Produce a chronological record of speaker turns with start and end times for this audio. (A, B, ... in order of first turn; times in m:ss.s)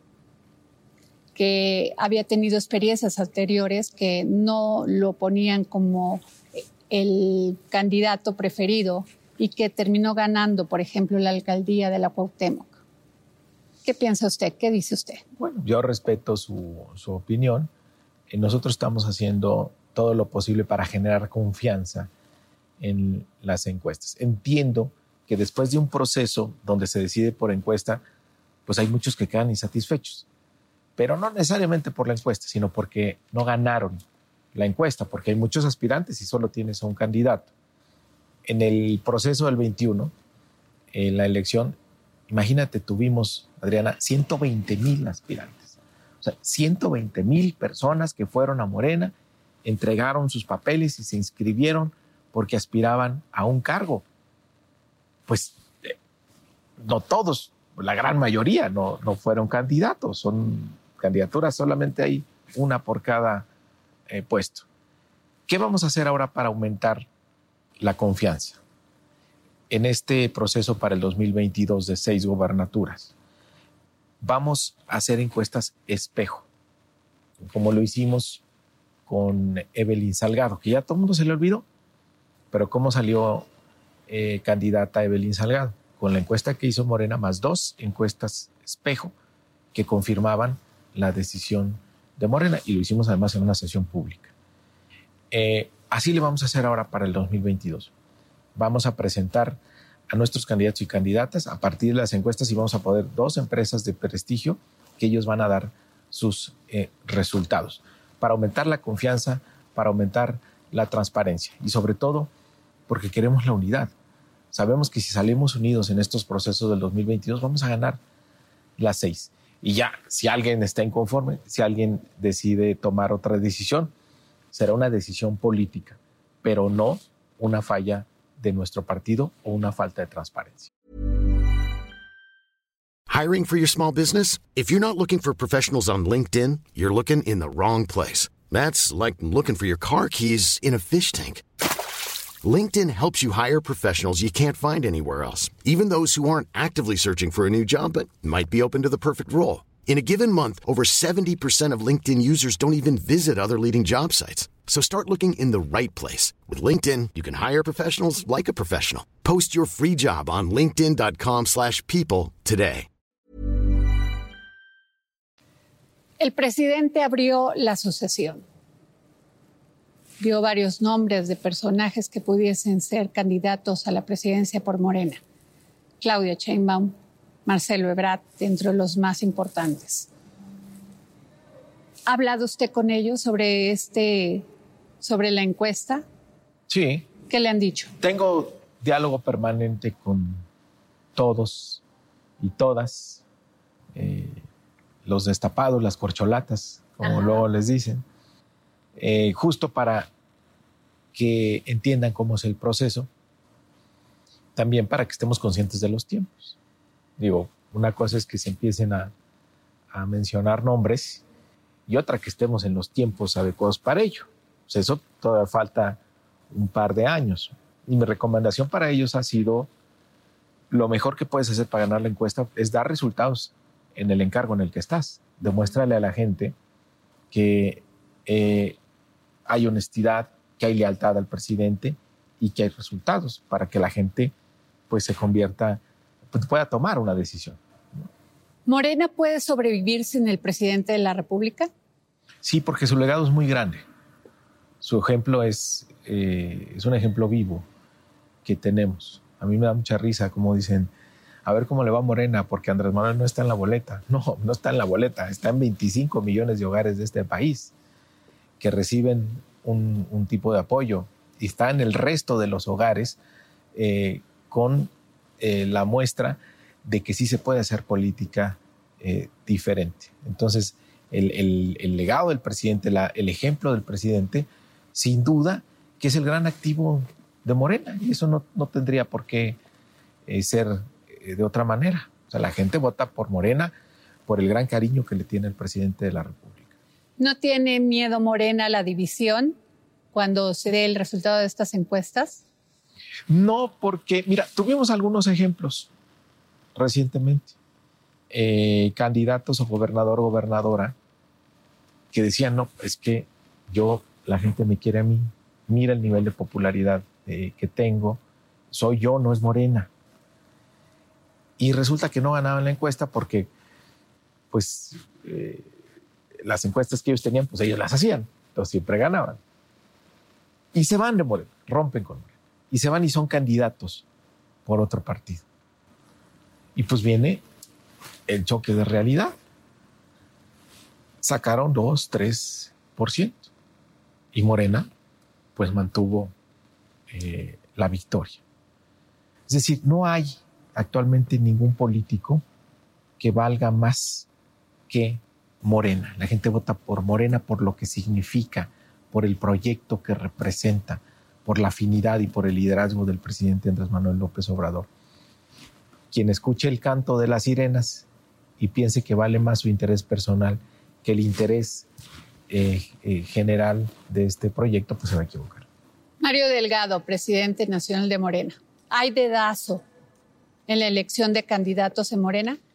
0:01.4-0:12.8 A
0:13.8-0:15.2 A
0:15.4-0:17.7 B
0:18.3-0:22.1 B
0:22.8-0:28.0 B
0:28.6-0:30.2 B
0:31.0-0:34.0 B
0:34.5-0:37.5 B
0:38.4-0:40.1 B
0:40.9-0:41.8 B
0:42.3-0:54.0 B
0:55.3-0:56.0 B
0:56.8-1:03.5 B
1:04.1-1:04.6 B
1:05.5-1:07.1 B
1:07.8-1:08.6 B
1:09.7-1:13.1 B
1:14.2-1:16.4 B
1:17.4-1:18.4 B
1:19.0-1:21.6 B
1:22.5-1:23.5 B
1:24.1-1:29.1 B
1:29.7-1:34.3 B
1:35.3-1:37.9 B
1:38.5-1:52.3 B
1:52.9-1:53.9 B
1:54.5-1:58.0 B
1:58.8-2:03.9 B
2:04.5-2:10.7 B
2:13.1-2:21.4 C
2:22.4-2:42.9 C
2:46.2-2:48.4 A
2:50.2-2:55.2 A
2:56.0-2:56.9 A
2:57.4-3:00.1 A
3:02.0-3:04.5 A
3:05.0-3:06.0 A
3:06.7-3:07.1 B
3:07.3-3:07.9 A
3:08.0-3:10.4 B
3:11.1-3:11.8 B
3:12.4-3:13.2 B
3:13.9-3:14.4 B
3:15.0-3:18.0 B
3:17.0-3:17.4 A
3:19.0-3:20.1 B
3:21.1-3:23.1 B
3:24.5-3:26.6 B
3:27.2-3:29.1 B
3:29.9-3:31.2 B
3:31.9-3:36.0 B
3:36.5-3:39.7 B
3:40.7-3:46.6 B
3:47.3-3:48.8 B
3:49.4-3:54.3 B
3:54.9-3:57.6 B
3:58.6-4:01.7 A
4:02.4-4:03.8 B
4:04.8-4:07.6 B
4:08.4-4:10.9 B
4:11.4-4:17.7 B
4:18.6-4:23.2 B
4:23.7-4:39.6 B
4:40.2-4:43.7 B
4:44.2-4:46.7 B
4:47.2-4:49.6 A
4:50.1-4:52.4 A
4:53.3-4:55.9 B
4:56.7-4:57.5 B
4:58.3-5:00.9 B
5:02.1-5:09.9 B
5:11.6-5:13.5 B
5:14.5-5:15.7 B
5:16.4-5:19.4 B
5:20.7-5:24.0 B
5:24.6-5:25.4 B
5:26.7-5:27.4 B
5:28.3-5:29.4 B
5:31.2-5:33.5 B
5:34.3-5:34.9 B
5:35.6-5:36.3 B
5:37.1-5:38.4 B
5:39.5-5:42.4 B
5:43.2-5:44.3 B
5:44.9-5:54.9 B
5:56.1-5:58.0 B
5:58.6-6:01.9 B
6:02.5-6:05.6 B
6:06.2-6:09.8 A
6:10.7-6:12.6 A